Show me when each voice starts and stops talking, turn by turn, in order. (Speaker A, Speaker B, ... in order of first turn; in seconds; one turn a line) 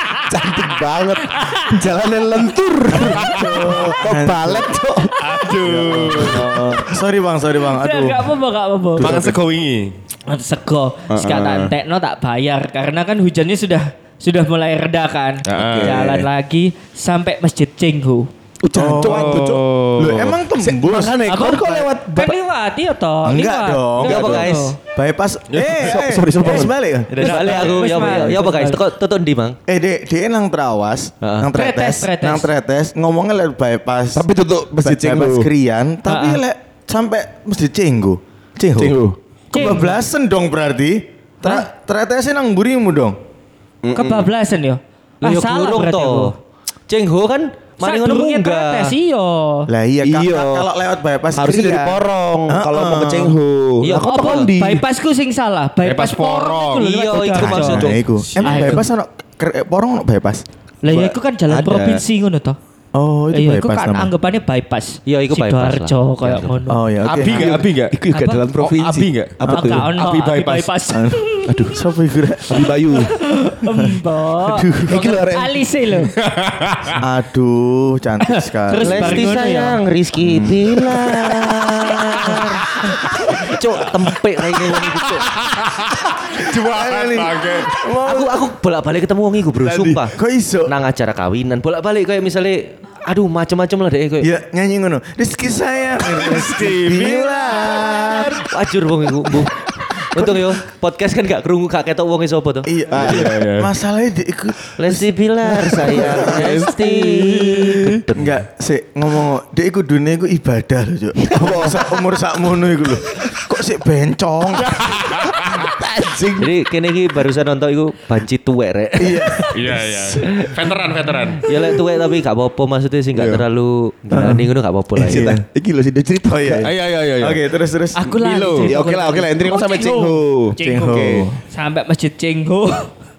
Speaker A: 0.3-6.8
Speaker B: 1.3-1.8
Speaker C: 3.0-3.6
Speaker D: 3.3-5.0
Speaker C: 5.2-6.8
Speaker D: 6.7-8.3
Speaker B: 7.6-9.2
Speaker D: 9.0-9.4
Speaker C: 9.0-9.9
Speaker B: 10.3-18.3
Speaker A: 11.1-11.7
Speaker C: 15.5-16.0
Speaker A: 15.5-16.3
Speaker A: 18.6-22.4
Speaker D: 18.7-19.4
Speaker C: 19.0-20.2
Speaker D: 20.0-21.2
Speaker B: 21.2-24.8
Speaker D: 23.2-24.4
Speaker E: 24.0-24.8
Speaker A: 24.1-24.6
Speaker D: 24.9-28.4
Speaker C: 25.5-26.0
Speaker A: 25.7-26.7
Speaker E: 27.1-29.6
Speaker B: 27.2-28.8
Speaker D: 29.7-34.2
Speaker E: 31.2-31.5
Speaker B: 31.5-32.5
Speaker A: 34.1-35.5
Speaker D: 34.8-39.0
Speaker B: 36.1-36.4
Speaker A: 38.8-39.1
Speaker B: 39.5-40.0
Speaker D: 39.5-43.1
Speaker B: 41.4-41.7
Speaker A: 43.8-44.3
Speaker B: 43.9-46.3
Speaker E: 45.2-46.3
Speaker E: 46.9-49.0
Speaker B: 47.8-49.7
Speaker D: 49.7-52.0
Speaker A: 50.0-50.6
Speaker A: 51.4-54.8
Speaker D: 52.5-53.4
Speaker E: 53.8-54.5
Speaker B: 54.0-58.8
Speaker C: 55.8-56.9
Speaker E: 56.8-58.0
Speaker D: 57.4-60.4
Speaker C: 57.6-58.8
Speaker B: 60.8-62.6
Speaker A: 60.9-62.0
Speaker D: 62.9-64.1
Speaker B: 63.3-66.8
Speaker E: 65.0-66.5
Speaker D: 66.7-67.7
Speaker C: 67.0-67.9
Speaker A: 67.3-69.9
Speaker B: 68.1-68.4
Speaker C: 68.6-70.7
Speaker D: 69.4-69.8
Speaker B: 69.5-71.6
Speaker D: 70.9-72.5
Speaker A: 72.5-73.1
Speaker B: 72.9-76.1
Speaker D: 74.5-74.8
Speaker A: 74.8-75.6
Speaker C: 76.2-77.0
Speaker D: 77.0-79.4
Speaker B: 78.2-79.8
Speaker E: 78.8-85.2
Speaker D: 80.2-80.8
Speaker C: 84.8-87.8
Speaker D: 86.2-88.4
Speaker E: 88.0-90.1
Speaker C: 89.6-90.1
Speaker D: 90.2-90.7
Speaker E: 90.7-94.3
Speaker D: 94.2-98.5
Speaker C: 96.1-97.8
Speaker A: 97.4-98.4
Speaker E: 98.5-102.7
Speaker D: 100.1-100.5
Speaker D: 102.6-105.0
Speaker A: 102.9-103.3
Speaker C: 103.0-103.7
Speaker E: 104.8-108.4
Speaker A: 105.6-106.7
Speaker D: 105.7-106.3
Speaker C: 106.3-108.0
Speaker D: 108.2-114.7
Speaker A: 111.3-111.8
Speaker C: 114.6-115.6
Speaker A: 115.4-116.5
Speaker E: 116.4-119.5
Speaker D: 119.0-119.5
Speaker C: 119.5-121.4
Speaker E: 120.2-120.7
Speaker E: 121.5-125.2
Speaker A: 123.1-123.4
Speaker D: 124.1-124.4
Speaker D: 125.0-125.4
Speaker A: 125.0-126.7
Speaker D: 126.3-128.1
Speaker C: 126.6-127.4
Speaker B: 127.9-132.9
Speaker C: 128.2-128.7
Speaker A: 128.6-130.6
Speaker D: 130.6-131.4